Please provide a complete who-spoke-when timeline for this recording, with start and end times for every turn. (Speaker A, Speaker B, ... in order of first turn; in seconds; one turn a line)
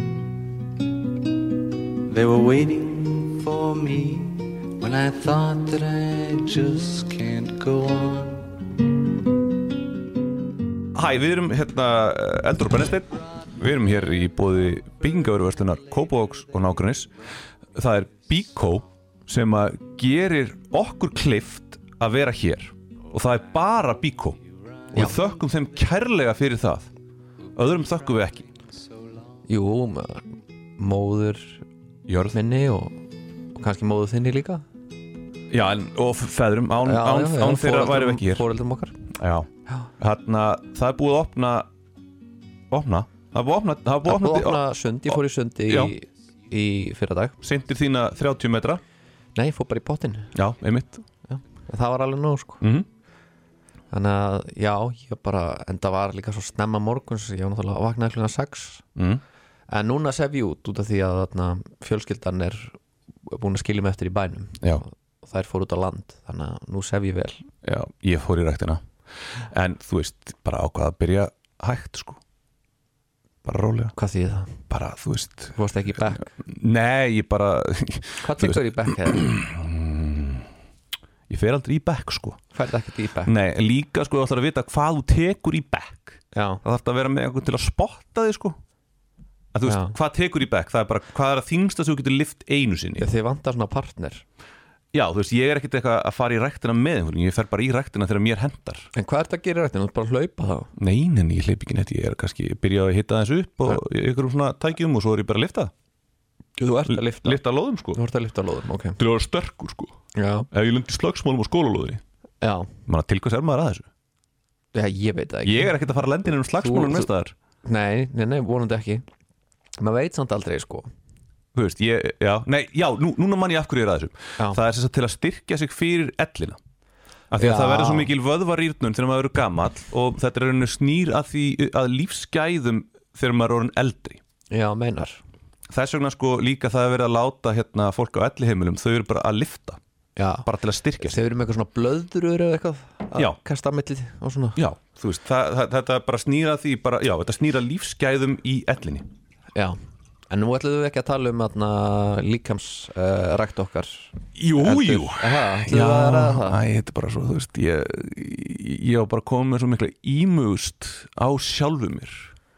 Speaker A: 2.0-8.6
Speaker B: 10.9-17.1
Speaker B: 17.8-26.9
Speaker C: 24.9-25.2
Speaker B: 27.6-28.5
Speaker A: 28.6-29.4
Speaker C: 29.5-31.6
Speaker B: 32.1-32.4
Speaker C: 32.3-33.0
Speaker C: 33.5-34.6
Speaker B: 35.5-38.5
Speaker C: 36.8-39.0
Speaker B: 39.1-41.7
Speaker B: 42.7-44.6
Speaker C: 44.1-47.4
Speaker B: 45.7-45.9
Speaker B: 47.4-48.8
Speaker C: 49.4-50.4
Speaker B: 50.4-51.0
Speaker C: 51.3-52.6
Speaker B: 52.6-52.9
Speaker C: 53.9-58.8
Speaker B: 59.0-59.2
Speaker C: 59.7-62.8
Speaker C: 63.3-67.5
Speaker B: 67.6-72.2
Speaker B: 73.5-74.0
Speaker C: 74.0-74.6
Speaker B: 74.7-75.6
Speaker C: 75.5-76.3
Speaker B: 76.1-80.5
Speaker C: 78.2-79.2
Speaker B: 81.3-82.4
Speaker C: 82.5-83.3
Speaker B: 83.2-88.6
Speaker C: 86.3-86.6
Speaker B: 89.5-93.1
Speaker C: 89.7-90.0
Speaker C: 93.0-94.2
Speaker B: 94.9-98.9
Speaker C: 99.0-100.7
Speaker B: 100.8-105.7
Speaker C: 106.6-107.4
Speaker B: 106.9-108.0
Speaker C: 107.9-109.0
Speaker B: 109.0-110.0
Speaker C: 110.2-110.5
Speaker B: 110.5-112.0
Speaker C: 112.4-112.7
Speaker B: 112.9-113.9
Speaker C: 114.7-115.7
Speaker B: 115.4-117.3
Speaker C: 116.6-117.1
Speaker C: 117.7-119.0
Speaker C: 119.8-120.9
Speaker B: 121.5-126.6
Speaker B: 127.3-134.2
Speaker C: 127.4-128.1
Speaker C: 134.5-135.2
Speaker B: 135.7-139.8
Speaker C: 140.2-140.5
Speaker B: 140.4-141.2
Speaker C: 141.0-144.6
Speaker B: 144.6-149.1
Speaker C: 150.3-156.6
Speaker B: 154.4-162.3